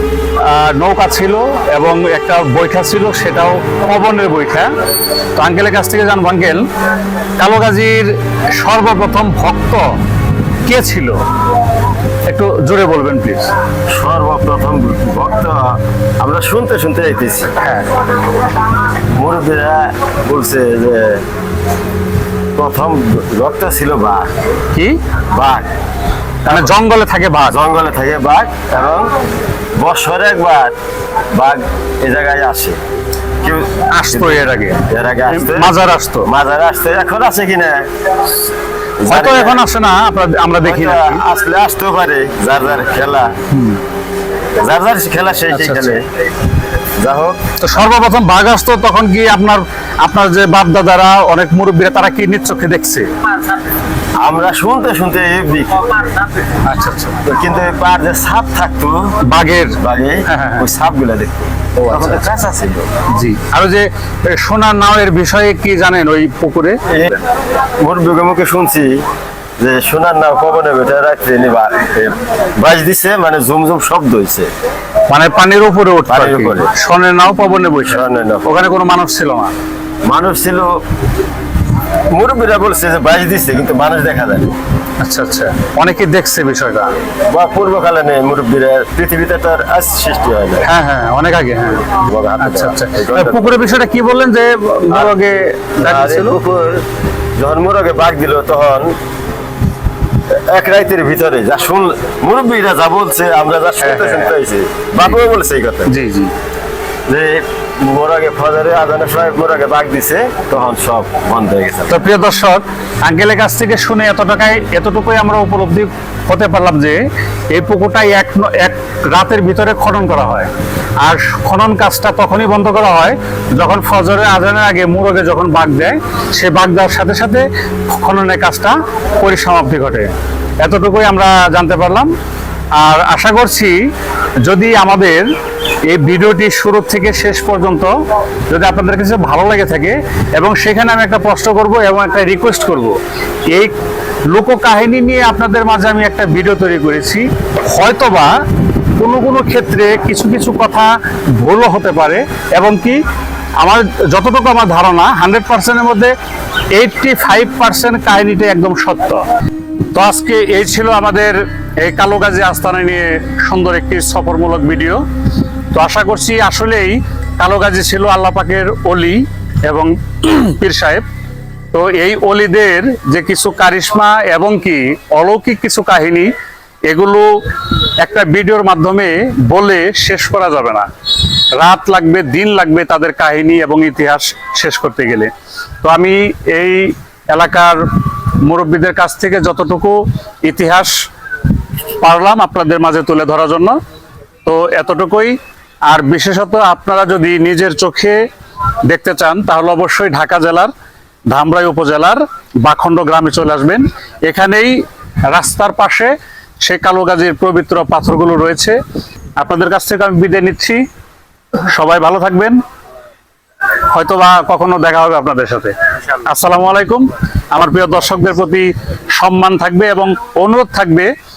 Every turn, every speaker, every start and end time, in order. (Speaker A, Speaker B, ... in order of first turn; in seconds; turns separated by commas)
Speaker A: 0.4-4.7, Speaker A: 5.4-6.6, Speaker A: 7.4-9.8, Speaker A: 10.7-11.1, Speaker A: 12.3-13.5, Speaker B: 13.9-17.5, Speaker A: 17.6-17.9, Speaker B: 19.1-21.2, Speaker B: 22.6-24.3, Speaker B: 25.3-25.6, Speaker B: 26.5-26.7, Speaker A: 26.5-27.6, Speaker B: 27.5-29.1, Speaker B: 29.8-30.7, Speaker B: 31.3-32.8, Speaker B: 33.4-35.7, Speaker A: 33.9-36.3, Speaker B: 36.3-37.9, Speaker B: 39.0-39.6, Speaker A: 39.1-41.2, Speaker B: 40.6-43.3, Speaker A: 43.5-43.8, Speaker B: 44.6-46.0, Speaker A: 45.5-46.0, Speaker B: 47.0-47.4, Speaker A: 47.6-53.1, Speaker B: 54.2-56.5, Speaker A: 56.6-57.2, Speaker B: 57.2-59.0, Speaker A: 59.3-59.8, Speaker B: 59.8-62.9, Speaker A: 60.3-60.7, Speaker A: 62.0-62.2, Speaker A: 63.1-66.8, Speaker B: 66.9-67.2, Speaker B: 67.8-69.0, Speaker B: 69.6-74.5, Speaker A: 75.1-79.5, Speaker B: 76.1-76.7, Speaker B: 77.9-78.5, Speaker B: 80.1-80.7, Speaker B: 82.1-84.5, Speaker A: 85.0-87.0, Speaker B: 87.3-90.7, Speaker A: 90.7-96.4, Speaker B: 92.0-93.6, Speaker B: 94.9-95.2, Speaker B: 95.8-96.8, Speaker B: 97.4-98.9, Speaker B: 100.5-105.9, Speaker A: 103.8-104.3, Speaker A: 105.9-106.3, Speaker B: 107.1-112.0, Speaker A: 111.9-117.0, Speaker A: 117.5-120.5, Speaker A: 121.0-130.1, Speaker A: 130.6-132.1, Speaker A: 132.8-133.7, Speaker A: 134.5-135.3, Speaker A: 135.9-137.9, Speaker A: 138.5-143.0, Speaker A: 144.3-148.3, Speaker A: 149.0-150.9, Speaker A: 151.4-153.0, Speaker A: 153.6-156.1, Speaker A: 156.7-159.2, Speaker A: 159.9-165.0, Speaker A: 165.7-171.0, Speaker A: 171.7-176.3, Speaker A: 176.9-177.3, Speaker A: 178.0-180.9, Speaker A: 181.6-185.3, Speaker A: 185.8-187.8, Speaker A: 188.4-190.9, Speaker A: 192.0-193.8, Speaker A: 194.5-195.4, Speaker A: 195.9-198.2, Speaker A: 198.9-200.7, Speaker A: 201.3-204.7, Speaker A: 205.3-206.1, Speaker A: 206.6-208.8, Speaker A: 209.4-210.8, Speaker A: 211.7-212.6, Speaker A: 213.9-215.7, Speaker A: 216.2-221.1